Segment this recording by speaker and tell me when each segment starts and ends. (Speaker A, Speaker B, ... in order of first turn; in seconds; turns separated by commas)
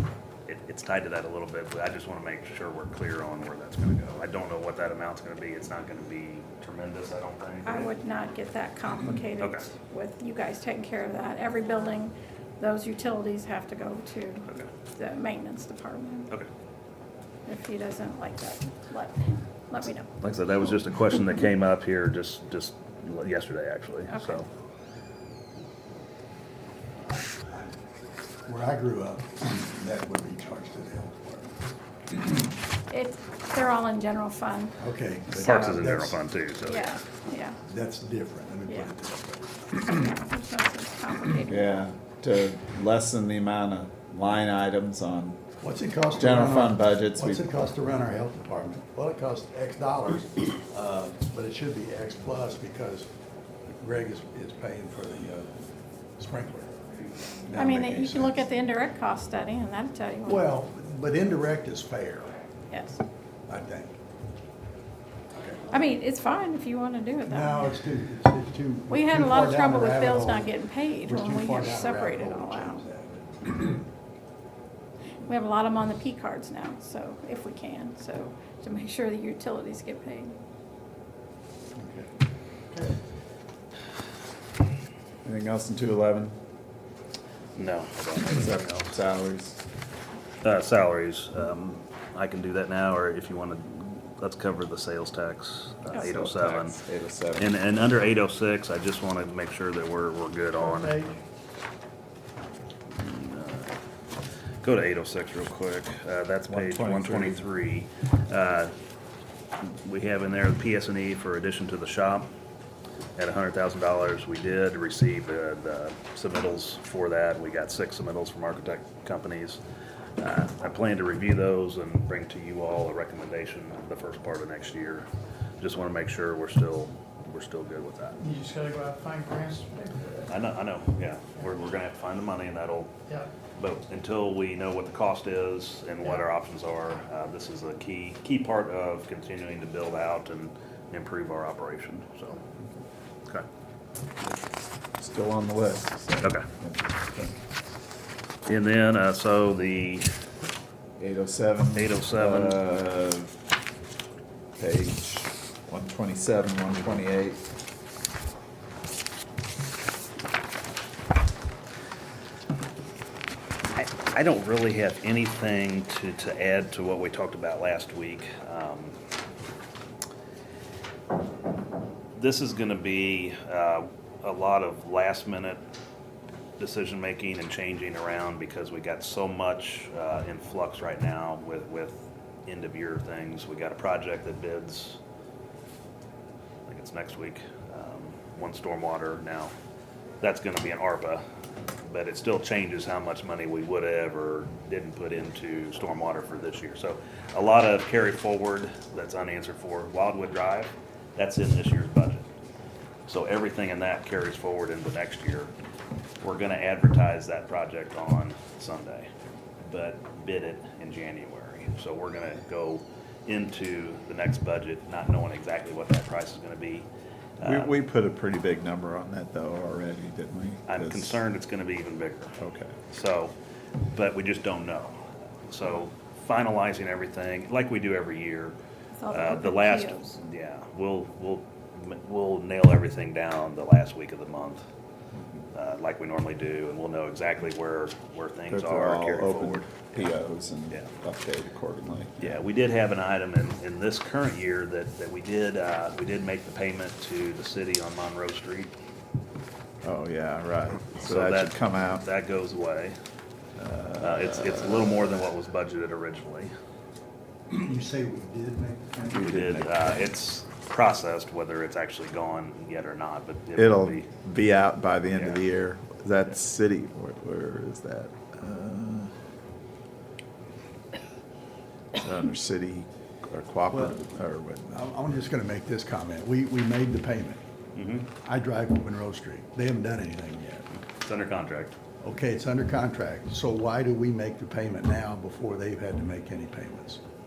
Speaker A: 0.5-7.9, Speaker B: 7.6-16.3, Speaker A: 9.4-9.7, Speaker B: 17.4-20.1, Speaker A: 20.2-24.5, Speaker B: 24.1-24.4, Speaker C: 27.4-27.7, Speaker C: 28.4-31.5, Speaker B: 32.9-34.7, Speaker C: 34.8-36.2, Speaker B: 35.3-35.9, Speaker A: 35.3-37.0, Speaker B: 36.6-37.6, Speaker C: 37.6-40.0, Speaker B: 38.7-38.9, Speaker B: 39.9-41.9, Speaker D: 41.5-45.4, Speaker C: 45.6-53.1, Speaker D: 46.1-47.6, Speaker C: 53.8-55.6, Speaker C: 56.2-56.8, Speaker C: 57.4-58.4, Speaker B: 57.5-60.5, Speaker C: 60.2-62.3, Speaker B: 62.7-63.0, Speaker C: 63.5-64.0, Speaker C: 65.3-65.6, Speaker B: 65.7-67.8, Speaker C: 67.3-73.8, Speaker B: 68.9-72.8, Speaker B: 75.2-80.3, Speaker C: 81.8-82.1, Speaker C: 82.7-83.0, Speaker D: 85.2-86.4, Speaker A: 87.5-88.9, Speaker D: 88.2-89.6, Speaker A: 90.4-96.8, Speaker D: 95.9-97.6, Speaker A: 97.3-101.0, Speaker E: 100.6-101.2, Speaker A: 102.9-103.7, Speaker A: 104.6-108.7, Speaker D: 106.5-107.4, Speaker A: 109.6-112.3, Speaker A: 113.2-119.6, Speaker A: 120.2-125.1, Speaker A: 125.6-128.2, Speaker E: 128.2-130.3, Speaker A: 130.3-132.9, Speaker A: 133.6-142.4, Speaker D: 145.0-147.4, Speaker A: 146.2-146.5, Speaker A: 148.4-150.1, Speaker D: 151.0-153.3, Speaker A: 151.7-152.6, Speaker D: 154.6-157.4, Speaker A: 163.7-168.9, Speaker A: 172.1-175.6, Speaker A: 176.6-185.0, Speaker A: 186.7-189.5, Speaker A: 190.2-191.2, Speaker A: 191.8-202.2, Speaker A: 203.1-205.5, Speaker A: 206.2-209.1, Speaker A: 209.6-216.9, Speaker A: 217.4-217.7, Speaker D: 217.4-221.2, Speaker A: 220.7-222.3, Speaker D: 222.4-222.7, Speaker A: 222.9-223.3, Speaker A: 223.9-228.6, Speaker B: 228.9-230.2, Speaker A: 229.1-234.6, Speaker D: 235.2-235.4, Speaker A: 235.5-240.1, Speaker D: 238.5-242.4, Speaker A: 242.2-248.7, Speaker D: 249.8-252.0, Speaker A: 251.0-252.9, Speaker D: 253.6-255.1, Speaker A: 254.0-256.5, Speaker C: 257.5-259.3, Speaker D: 259.1-260.1, Speaker A: 259.1-264.1, Speaker D: 263.6-269.1, Speaker A: 265.1-265.4, Speaker D: 271.9-274.9, Speaker C: 273.7-274.0, Speaker C: 274.7-277.4, Speaker A: 277.7-278.1, Speaker C: 278.2-280.7, Speaker A: 280.8-281.8, Speaker C: 282.0-287.0